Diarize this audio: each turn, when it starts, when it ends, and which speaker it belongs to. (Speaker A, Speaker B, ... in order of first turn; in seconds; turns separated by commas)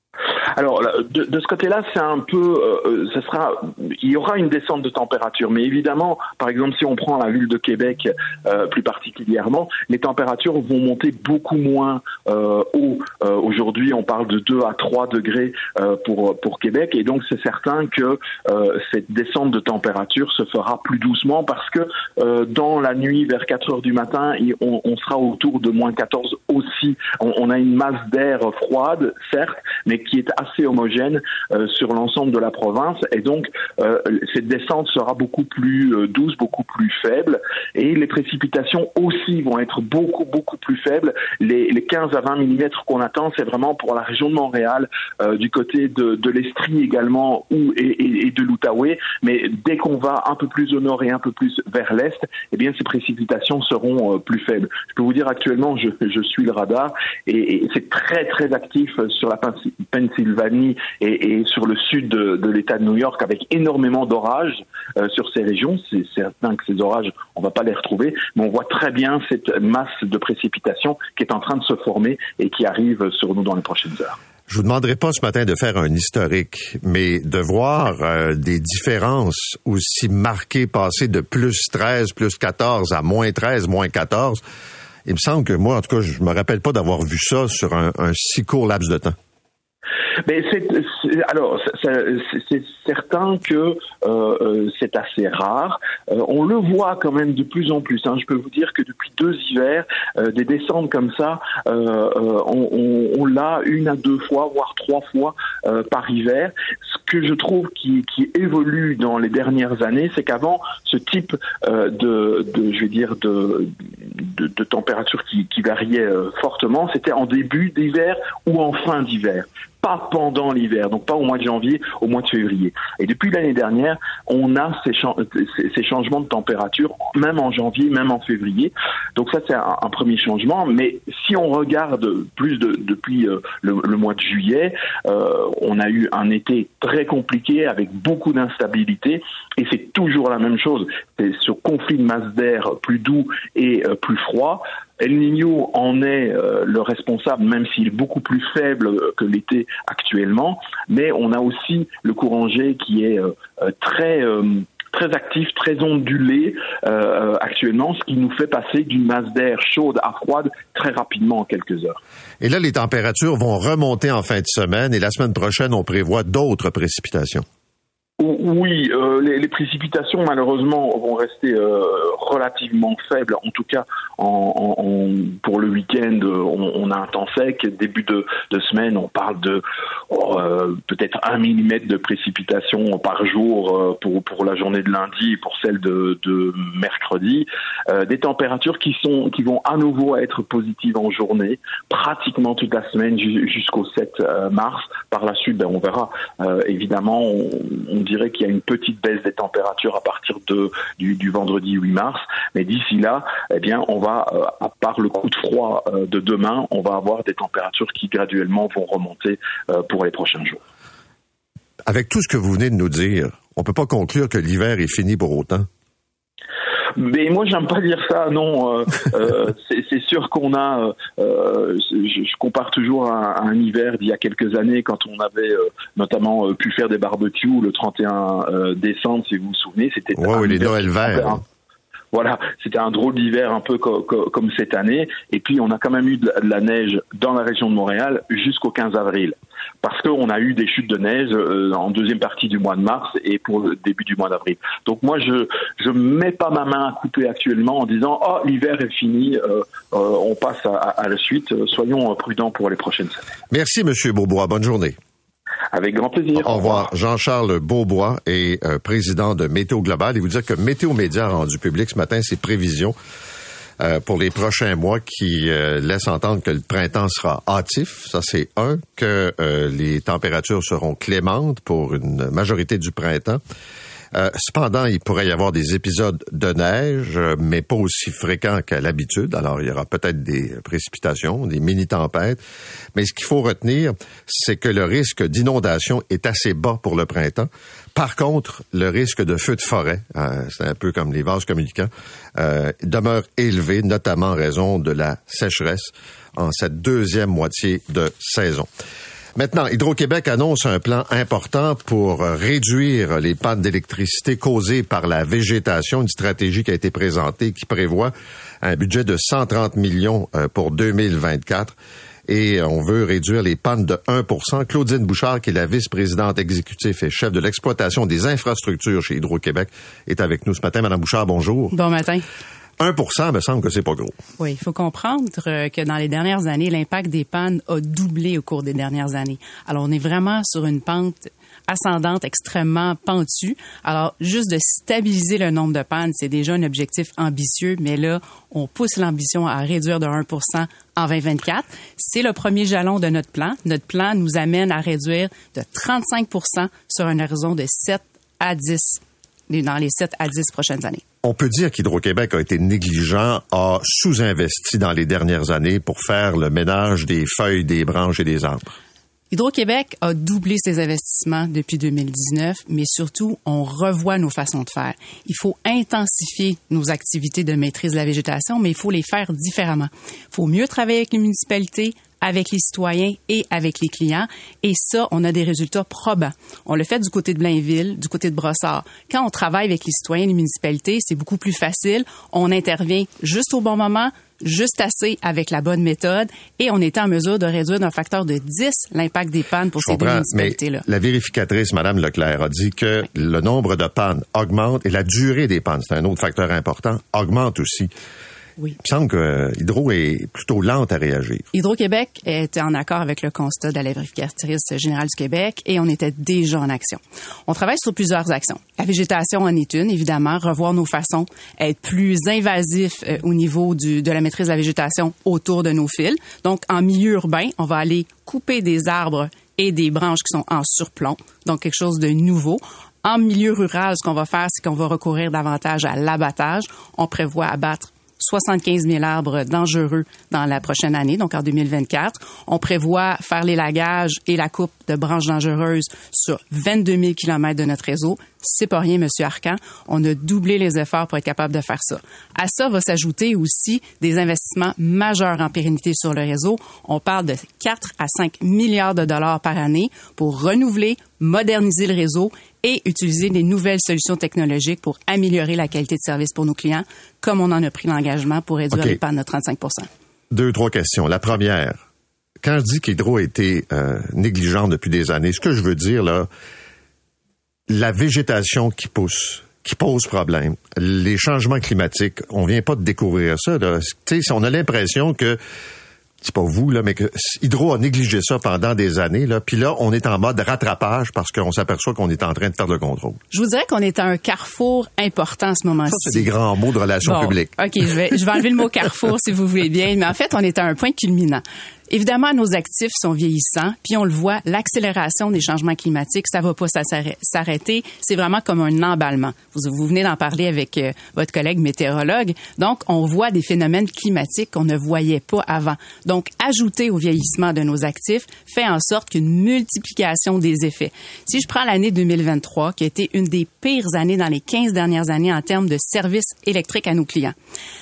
Speaker A: 0.5-74.2, Speaker B: 74.5-84.4, Speaker B: 85.1-89.2, Speaker A: 90.2-162.0, Speaker B: 162.4-167.4, Speaker A: 168.2-210.6, Speaker B: 211.9-215.7, Speaker A: 217.0-231.4, Speaker B: 230.2-231.4, Speaker A: 232.1-253.2, Speaker B: 253.5-255.0, Speaker A: 255.7-256.9, Speaker B: 256.4-262.9, Speaker B: 263.8-273.4, Speaker B: 274.1-282.4, Speaker B: 282.9-298.7, Speaker B: 299.4-311.7, Speaker B: 312.3-321.8, Speaker C: 321.7-322.2, Speaker B: 322.8-324.1, Speaker C: 324.4-351.0, Speaker B: 351.2-358.8, Speaker C: 359.3-390.9, Speaker B: 389.8-397.9, Speaker B: 398.8-401.4, Speaker C: 401.5-459.9, Speaker B: 458.7-459.0, Speaker B: 460.3-461.8, Speaker B: 462.4-466.3, Speaker B: 467.7-475.4, Speaker B: 476.2-483.2, Speaker C: 483.3-486.3, Speaker B: 485.9-487.6, Speaker C: 487.0-517.4